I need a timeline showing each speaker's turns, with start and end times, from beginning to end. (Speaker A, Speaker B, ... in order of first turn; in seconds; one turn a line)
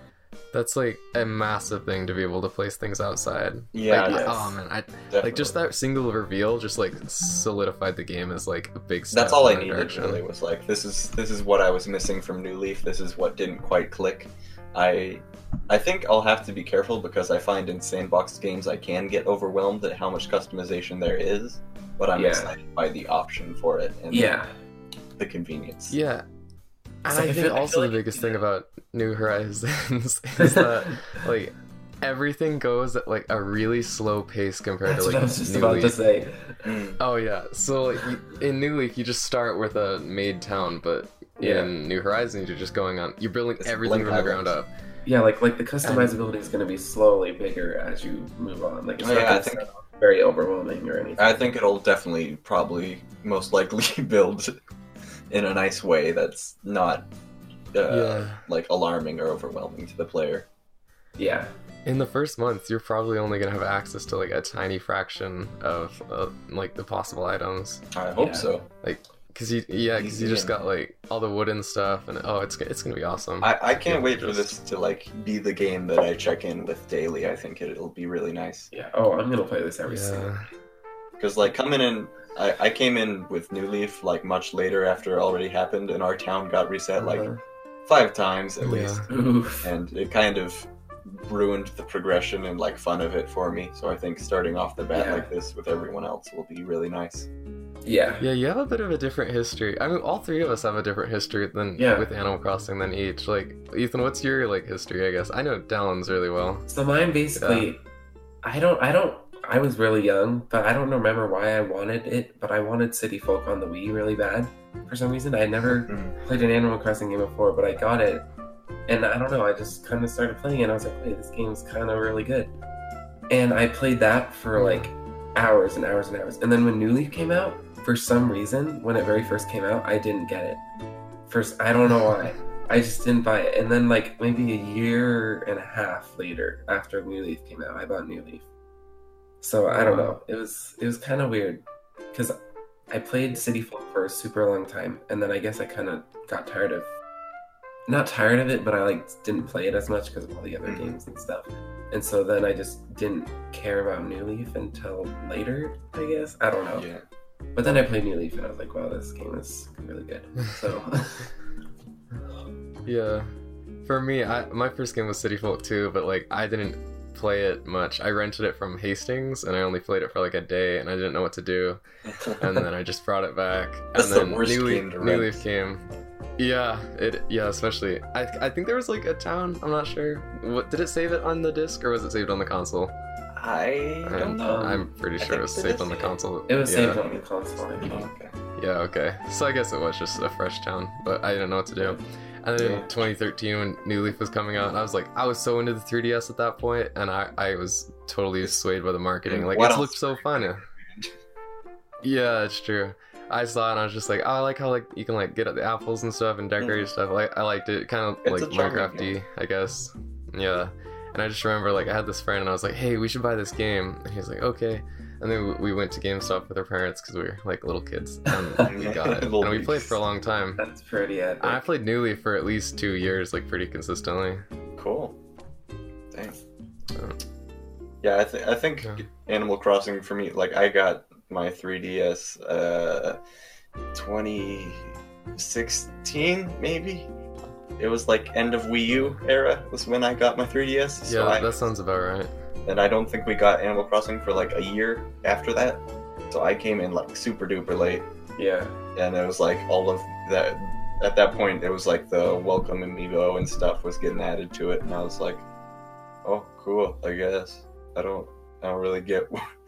Speaker A: 0.5-10.2
Speaker B: 3.7-4.5
Speaker C: 4.0-4.5
Speaker B: 5.1-5.6
Speaker B: 9.1-24.3
Speaker C: 22.1-22.5
Speaker C: 24.1-24.5
Speaker B: 25.2-25.9
Speaker A: 25.9-26.2
Speaker A: 27.0-35.9
Speaker C: 27.1-28.4
Speaker C: 30.4-31.2
Speaker C: 34.9-36.6
Speaker B: 36.6-37.0
Speaker A: 37.0-44.7
Speaker C: 41.4-41.7
Speaker B: 43.6-44.5
Speaker C: 45.0-51.5
Speaker A: 45.8-46.1
Speaker B: 49.0-49.7
Speaker B: 51.2-54.5
Speaker B: 55.3-57.1
Speaker B: 57.7-60.5
Speaker A: 57.9-58.4
Speaker C: 61.2-61.5
Speaker A: 61.9-67.9
Speaker B: 67.9-68.7
Speaker C: 68.2-68.5
Speaker A: 68.8-74.5
Speaker B: 70.0-70.5
Speaker B: 73.4-78.7
Speaker C: 78.7-80.3
Speaker A: 79.8-80.5
Speaker B: 81.2-87.3
Speaker C: 87.0-87.4
Speaker B: 87.8-89.1
Speaker A: 88.6-89.1
Speaker C: 89.1-89.7
Speaker B: 89.6-97.3
Speaker C: 94.9-95.3
Speaker C: 97.8-98.2
Speaker A: 98.2-106.7
Speaker C: 101.8-102.1
Speaker C: 106.7-107.8
Speaker A: 107.3-107.7
Speaker C: 108.4-118.2
Speaker B: 115.9-116.2
Speaker C: 118.9-122.5
Speaker C: 123.3-130.6
Speaker A: 124.5-124.9
Speaker C: 131.3-138.4
Speaker A: 132.0-132.2
Speaker C: 139.4-142.4
Speaker A: 139.7-140.2
Speaker C: 142.9-146.9
Speaker C: 147.9-156.9
Speaker B: 150.6-151.0
Speaker B: 156.7-157.0
Speaker C: 157.6-161.3
Speaker A: 162.8-163.3
Speaker A: 163.8-171.8
Speaker A: 172.4-175.8
Speaker B: 173.9-175.4
Speaker A: 176.4-182.9
Speaker B: 183.3-184.4
Speaker A: 184.1-187.0
Speaker C: 184.3-184.9
Speaker B: 185.2-186.2
Speaker C: 186.5-188.1
Speaker B: 186.9-188.4
Speaker A: 188.6-200.7
Speaker B: 192.6-192.9
Speaker B: 199.2-201.1
Speaker A: 202.0-220.6
Speaker B: 206.6-206.9
Speaker B: 208.2-209.2
Speaker C: 218.3-218.7
Speaker B: 218.7-220.0
Speaker C: 220.6-221.6
Speaker A: 221.4-224.4
Speaker B: 224.8-225.2
Speaker B: 226.1-226.4
Speaker B: 228.0-233.2
Speaker B: 233.9-237.1
Speaker B: 237.8-241.7
Speaker A: 238.9-239.2
Speaker A: 241.1-242.3
Speaker B: 242.7-248.1
Speaker C: 248.4-248.7
Speaker B: 248.9-255.4
Speaker B: 256.2-259.4